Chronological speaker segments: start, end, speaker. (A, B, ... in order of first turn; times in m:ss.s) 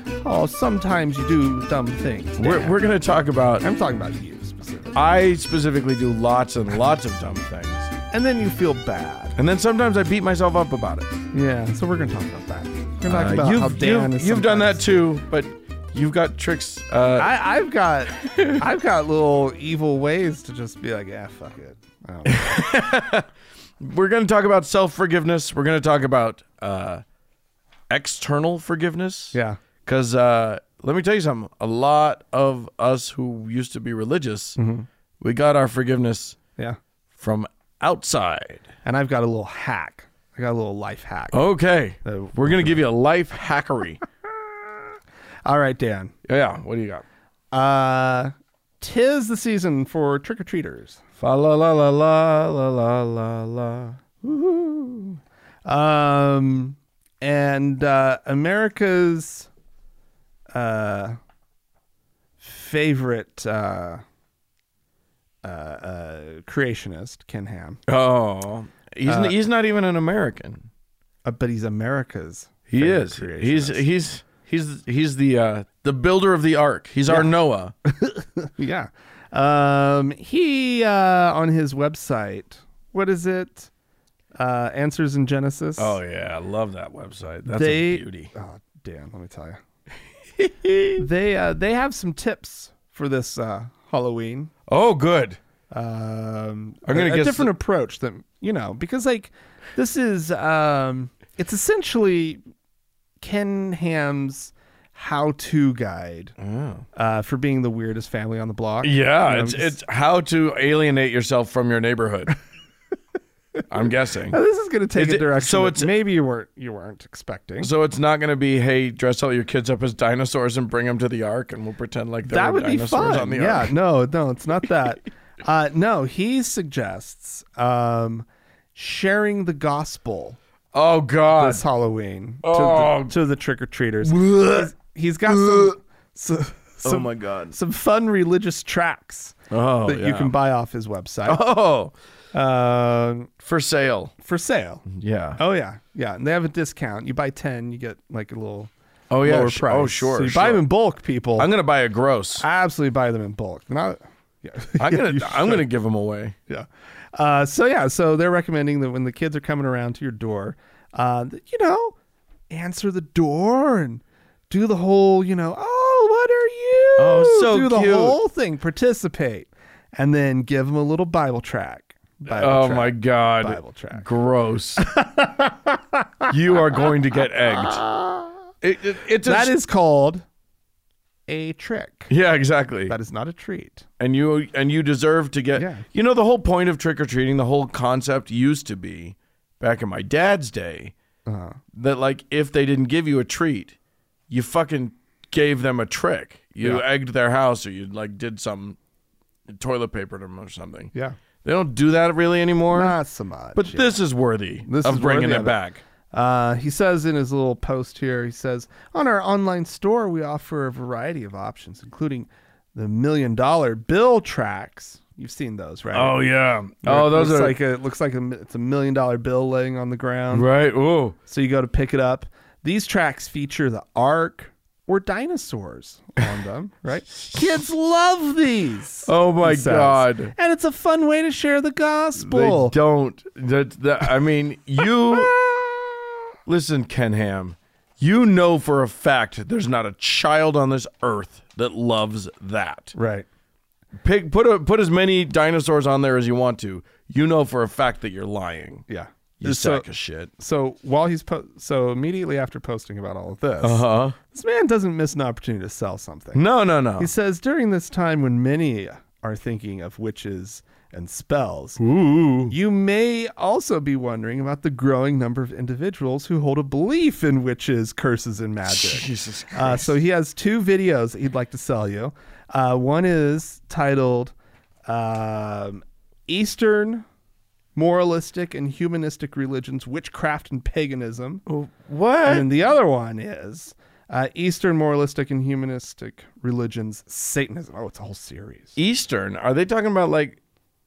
0:00.2-0:02.8 A
0:02.4-0:03.6 B
0:03.6-0:05.0 A
0:04.9-0:07.9 B
0:08.1-0:09.4 A
0:09.4-0:11.1 B
0:11.3-0:14.8 A
0:13.0-0:17.3 B
0:17.2-0:22.6 A
0:18.2-0:18.5 B
0:22.2-0:23.3 B
0:23.8-0:27.0 B
0:27.9-0:34.6 B
0:29.3-0:29.6 A
0:34.6-0:34.9 A
0:35.2-0:36.4 B
0:37.1-0:38.6 B
0:38.8-0:41.4 A
0:41.3-0:44.0 B
0:42.0-0:42.8 A
0:45.4-0:46.1 A
0:46.2-0:47.0 B
0:47.5-0:51.0 A
0:51.2-0:54.0 B
0:54.2-0:59.5 A
1:00.5-1:01.2 A
1:02.4-1:04.0 A
1:05.4-1:07.8 A
1:07.9-1:10.7 B
1:09.0-1:09.4 A
1:11.2-1:13.8 A
1:12.7-1:17.7 B
1:17.8-1:23.7 A
1:24.4-1:26.0 A
1:25.8-1:28.3 B
1:27.4-1:29.6 A
1:30.4-1:31.0 B
1:31.0-1:34.5 A
1:34.7-1:35.4 B
1:35.7-1:42.4 A
1:36.8-1:37.5 B
1:43.2-1:46.3 A
1:46.4-1:46.8 B
1:46.9-1:49.7 A
1:48.8-1:52.3 B
1:53.7-1:54.4 B
1:54.3-1:57.7 A
1:54.9-1:55.9 B
1:57.6-2:03.7 B
2:02.3-2:10.4 A
2:10.7-2:11.6 B
2:11.3-2:21.4 A
2:12.4-2:13.1 B
2:14.0-2:14.7 B
2:15.2-2:15.8 B
2:16.8-2:17.6 B
2:19.5-2:20.3 B
2:21.2-2:21.9 B
2:22.3-2:23.3 A
2:23.4-2:24.1 B
2:24.2-2:24.8 A
2:24.9-2:25.4 B
2:25.4-2:28.7 A
2:29.1-2:30.6 B
2:29.2-2:31.5 A
2:31.4-2:32.4 B
2:32.4-2:35.6 A
2:34.8-2:36.4 B
2:36.5-2:41.9 A
2:42.5-2:54.1 A
2:47.0-2:48.2 B
2:52.3-2:54.8 B
2:54.8-2:58.4 A
2:56.3-2:57.8 B
2:58.6-2:59.5 B
2:59.2-3:00.2 A
3:01.3-3:02.1 A
3:02.1-3:03.0 B
3:02.9-3:03.8 A
3:04.0-3:10.9 B
3:05.5-3:05.8 A
3:11.2-3:11.6 A
3:11.7-3:13.7 B
3:14.3-3:18.8 B
3:19.5-3:20.9 B
3:21.4-3:23.0 B
3:22.7-3:24.0 A
3:23.5-3:25.8 B
3:24.6-3:25.6 A
3:26.1-3:36.2 A
3:35.9-3:37.6 B
3:36.8-3:40.5 A
3:40.3-3:41.2 B
3:41.3-3:52.7 A
3:49.0-3:50.3 B
3:52.1-3:55.3 B
3:55.1-3:56.1 A
3:56.4-4:02.9 B
4:02.9-4:03.2 A
4:04.0-4:08.8 B
4:08.9-4:09.8 A
4:09.4-4:10.3 B
4:10.4-4:16.4 A
4:13.6-4:14.2 B
4:16.3-4:17.1 B
4:17.0-4:21.8 A
4:21.8-4:22.5 B
4:22.5-4:34.3 A
4:28.6-4:29.9 B
4:34.9-4:37.0 A
4:37.7-4:41.4 A
4:41.5-4:42.5 B
4:42.2-4:48.8 A
4:48.8-4:50.4 B